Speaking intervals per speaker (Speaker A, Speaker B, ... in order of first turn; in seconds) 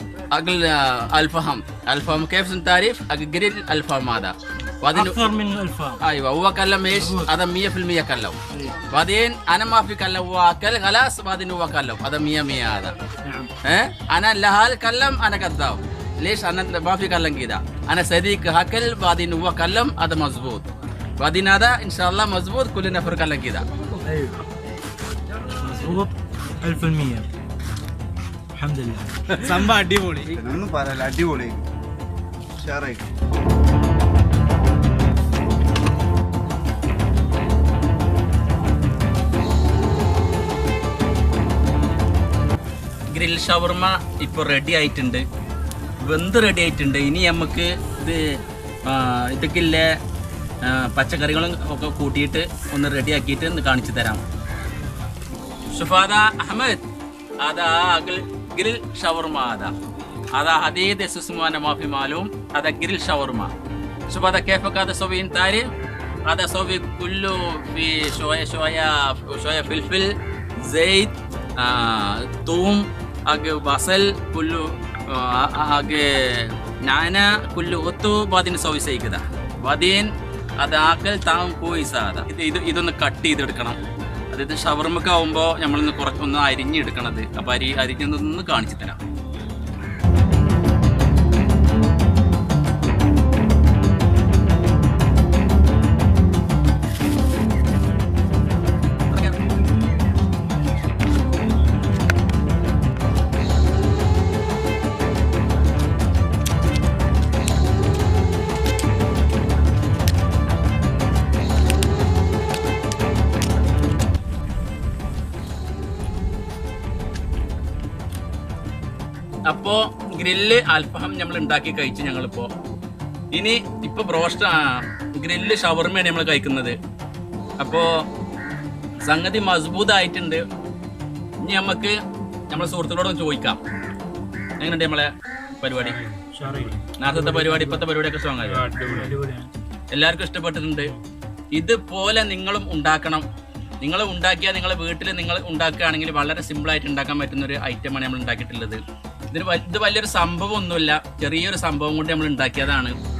Speaker A: 0.3-5.2, 6.0-12.9, 13.6-20.7, 21.2-23.7, 29.5-30.2, 43.1-45.3, 46.0-50.0, 50.6-54.2, 55.7-56.8, 57.4-59.8, 60.4-63.5, 64.1-65.7, 66.3-83.8, 84.3-89.0, 99.1-99.4, 119.5-122.5, 123.3-126.8, 127.6-127.9, 129.1-130.4, 131.4-132.0, 132.5-133.6, 134.6-136.0, 137.0-138.9, 139.9-140.9, 141.5-143.3, 143.8-152.9
Speaker B: 4.9-6.0, 7.0-7.3, 24.0-24.4, 25.6-27.3, 28.6-29.7, 136.3-137.7, 138.6-139.5
Speaker C: 29.6-31.7, 32.6-33.0